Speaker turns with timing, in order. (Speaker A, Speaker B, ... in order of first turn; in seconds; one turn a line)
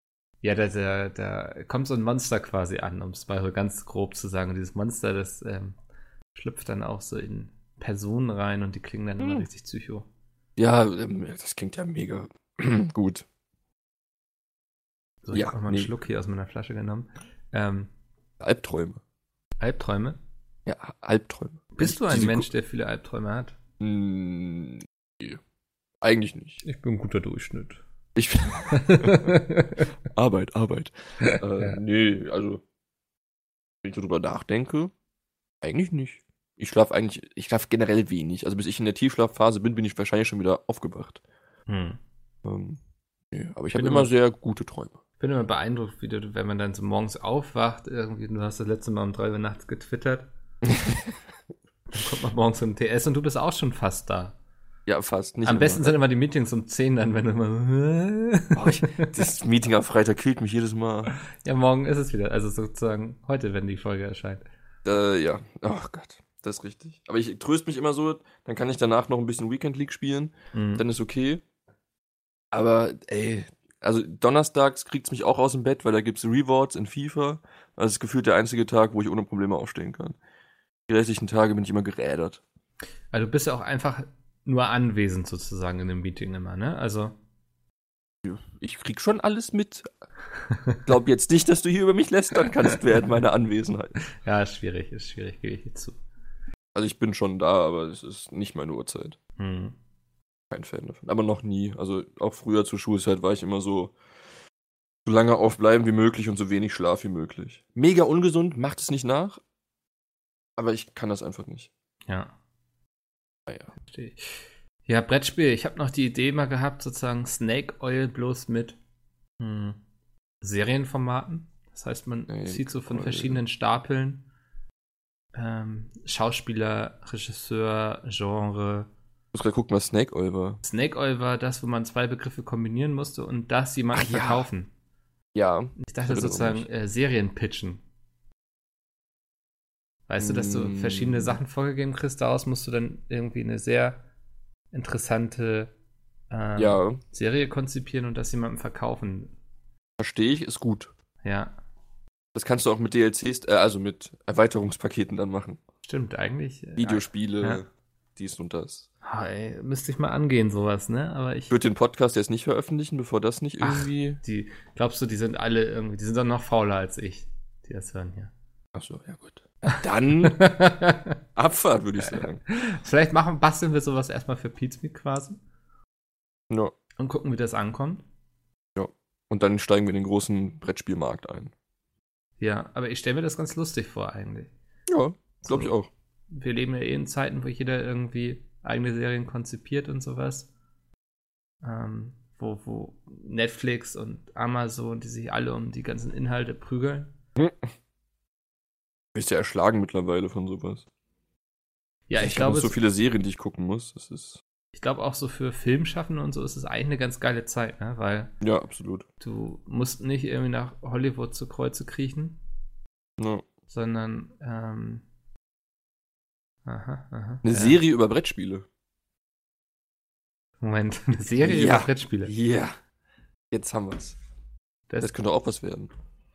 Speaker A: 0.4-5.8
Speaker A: 6.3-10.1
Speaker B: 9.2-9.4
Speaker B: 10.6-13.2
Speaker A: 15.2-17.9
Speaker B: 15.3-15.9
Speaker B: 18.4-19.0
Speaker A: 19.6-20.2
Speaker B: 20.7-22.5
Speaker A: 21.8-23.6
Speaker B: 23.8-25.4
Speaker B: 26.0-26.6
Speaker A: 26.6-27.8
Speaker B: 28.1-29.4
Speaker A: 28.7-29.9
Speaker B: 30.1-32.6
Speaker A: 31.2-31.8
Speaker B: 33.8-34.9
Speaker B: 35.6-41.2
Speaker A: 41.7-42.0
Speaker B: 42.4-42.8
Speaker B: 43.3-45.0
Speaker A: 43.7-44.1
Speaker A: 45.2-50.3
Speaker B: 50.7-51.1
Speaker A: 51.9-54.4
Speaker B: 54.9-56.0
Speaker A: 55.5-59.1
Speaker B: 58.5-61.1
Speaker A: 61.4-64.4
Speaker B: 64.8-71.4
Speaker A: 70.5-70.8
Speaker B: 72.5-80.2
Speaker B: 80.9-82.4
Speaker A: 83.1-87.2
Speaker B: 88.2-89.9
Speaker A: 90.5-90.8
Speaker B: 90.8-94.0
Speaker A: 94.2-96.0
Speaker B: 96.7-99.2
Speaker A: 99.4-99.8
Speaker B: 100.5-104.0
Speaker B: 105.0-109.4
Speaker B: 110.6-111.7
Speaker A: 112.1-112.3
Speaker A: 113.9-118.8
Speaker A: 119.4-119.8
Speaker A: 120.4-124.2
Speaker B: 122.3-123.4
Speaker A: 125.3-128.9
Speaker B: 129.3-130.6
Speaker A: 130.6-134.7
Speaker B: 133.9-134.5
Speaker B: 135.3-136.7
Speaker A: 135.8-137.8
Speaker A: 140.1-144.0
Speaker B: 140.2-141.4
Speaker A: 144.7-145.7
Speaker A: 146.3-149.3
Speaker B: 146.6-147.0
Speaker B: 150.0-150.9
Speaker A: 151.2-151.6
Speaker B: 152.3-155.6
Speaker A: 155.9-157.6
Speaker B: 156.8-158.9
Speaker A: 159.0-161.5
Speaker B: 161.5-164.2
Speaker A: 163.6-168.3
Speaker B: 168.8-170.5
Speaker A: 169.7-171.2
Speaker B: 171.4-172.4
Speaker A: 172.5-175.4
Speaker A: 177.0-178.0
Speaker B: 178.8-181.5
Speaker A: 182.4-184.5
Speaker B: 184.9-185.9
Speaker A: 185.4-185.7
Speaker A: 186.3-190.5
Speaker A: 191.6-197.1
Speaker B: 197.4-197.6
Speaker B: 199.1-200.8
Speaker A: 202.1-202.8
Speaker B: 202.2-204.4
Speaker A: 204.7-208.3
Speaker B: 208.4-209.1
Speaker A: 209.2-212.4
Speaker B: 213.2-213.5
Speaker A: 213.7-215.0
Speaker A: 216.7-217.8
Speaker B: 217.4-218.7
Speaker A: 220.6-222.3
Speaker B: 221.4-222.8
Speaker B: 223.5-224.2
Speaker B: 225.0-225.9